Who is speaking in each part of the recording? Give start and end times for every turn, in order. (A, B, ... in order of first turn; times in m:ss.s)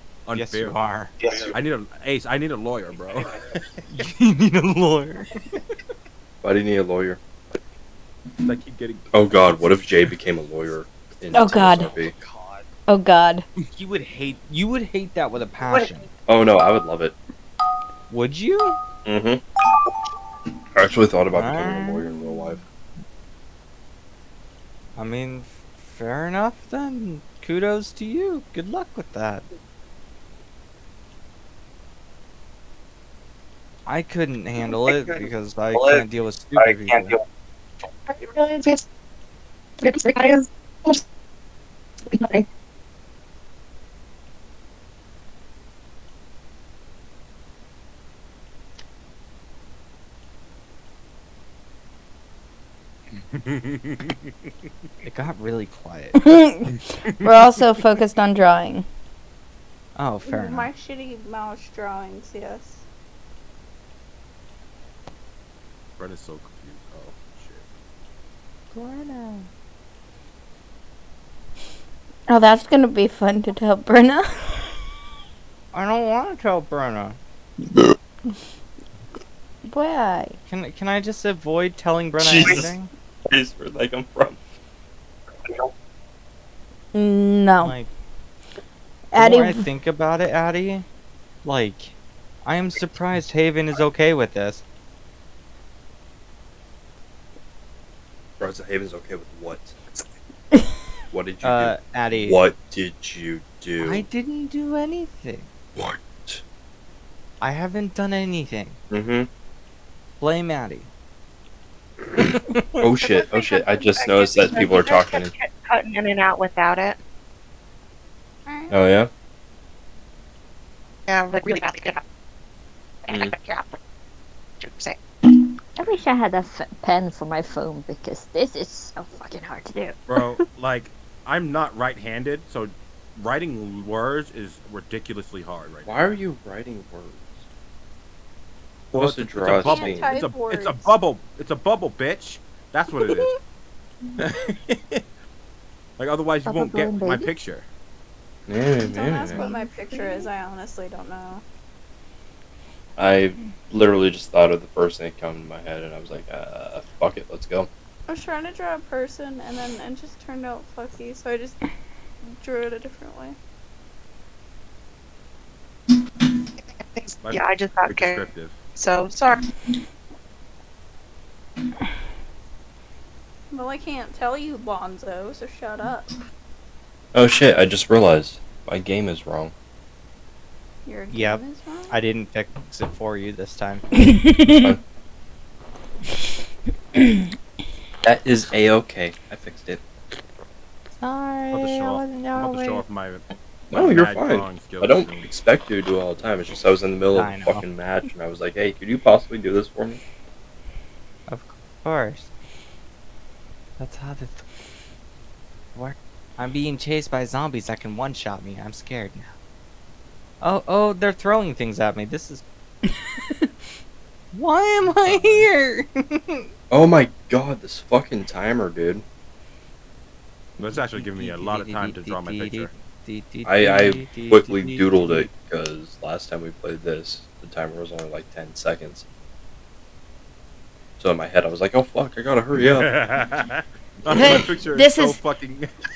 0:00.2-0:00.8 A
0:00.3-0:01.1 B
0:01.5-0:03.8 A
0:03.9-0:05.3 B
0:06.4-0:07.2 C
0:08.4-0:10.1 A
0:09.1-0:12.1 C
0:11.3-0:11.9 D
0:12.0-0:12.7 B
0:12.9-0:13.4 D
0:13.7-0:16.1 B
0:16.3-0:17.1 C
0:18.1-0:18.8 B
0:19.0-0:19.4 C
0:20.7-0:22.6 C
0:21.3-0:22.1 B
0:25.0-0:29.4 B
0:33.9-0:37.2 B
0:34.6-0:36.0 E
0:36.6-0:37.2 E
0:38.1-0:38.8 E
0:39.8-0:41.0 E
0:42.0-0:42.4 E
0:53.3-0:54.5 A
0:55.0-0:56.2 B
0:56.1-0:58.8 D
0:56.7-0:57.5 A
1:00.0-1:00.7 B
1:00.2-1:02.8 F
1:06.0-1:07.6 A
1:12.3-1:14.7 D
1:15.7-1:17.2 B
1:19.7-1:20.4 D
1:20.5-1:22.9 B
1:22.2-1:22.7 C
1:23.3-1:24.4 C
1:26.9-1:27.7 D
1:27.6-1:27.9 B
1:29.1-1:29.6 D
1:29.2-1:30.8 B
1:31.4-1:34.6 B
1:38.4-1:39.8 C
1:41.1-1:44.0 C
1:41.4-1:42.4 B
1:43.8-1:45.5 B
1:45.8-1:46.4 C
1:47.4-1:48.8 B
1:48.9-1:49.3 C
1:50.2-1:50.9 B
1:52.2-1:52.8 B
1:52.8-1:55.3 C
1:53.3-1:53.9 F
1:53.9-1:57.0 E
1:58.4-1:58.9 F
1:58.7-1:59.1 C
2:01.1-2:02.0 E
2:03.0-2:03.8 E
2:04.6-2:05.0 E
2:05.8-2:10.4 G
2:10.1-2:16.1 A
2:15.8-2:17.4 C
2:18.9-2:23.3 A
2:18.9-2:20.1 C
2:19.5-2:21.0 F
2:23.1-2:23.3 F
2:24.2-2:25.0 A
2:26.0-2:27.6 A
2:26.4-2:27.3 G
2:28.5-2:29.4 C
2:28.8-2:31.4 F
2:29.4-2:30.2 G
2:33.0-2:37.7 C
2:38.1-2:41.6 F
2:42.2-2:43.4 F
2:46.6-2:49.4 E
2:47.2-2:48.6 A
2:53.5-2:56.1 F
2:57.1-2:59.5 C
3:00.8-3:01.9 F
3:01.1-3:03.8 B
3:04.0-3:04.8 D
3:07.0-3:07.2 D
3:08.0-3:09.8 C
3:11.0-3:12.3 D
3:11.5-3:15.3 A
3:13.7-3:20.0 C
3:17.1-3:17.6 B
3:21.3-3:22.3 B
3:23.8-3:24.4 B
3:25.7-3:29.3 B
3:30.4-3:32.4 B
3:34.3-3:36.5 B
3:34.8-3:35.5 A
3:36.7-3:39.0 C
3:40.6-3:42.7 A
3:40.6-3:45.3 B
3:43.4-3:49.0 C
3:51.0-3:52.9 C
3:52.6-3:55.7 A
3:54.1-3:55.2 D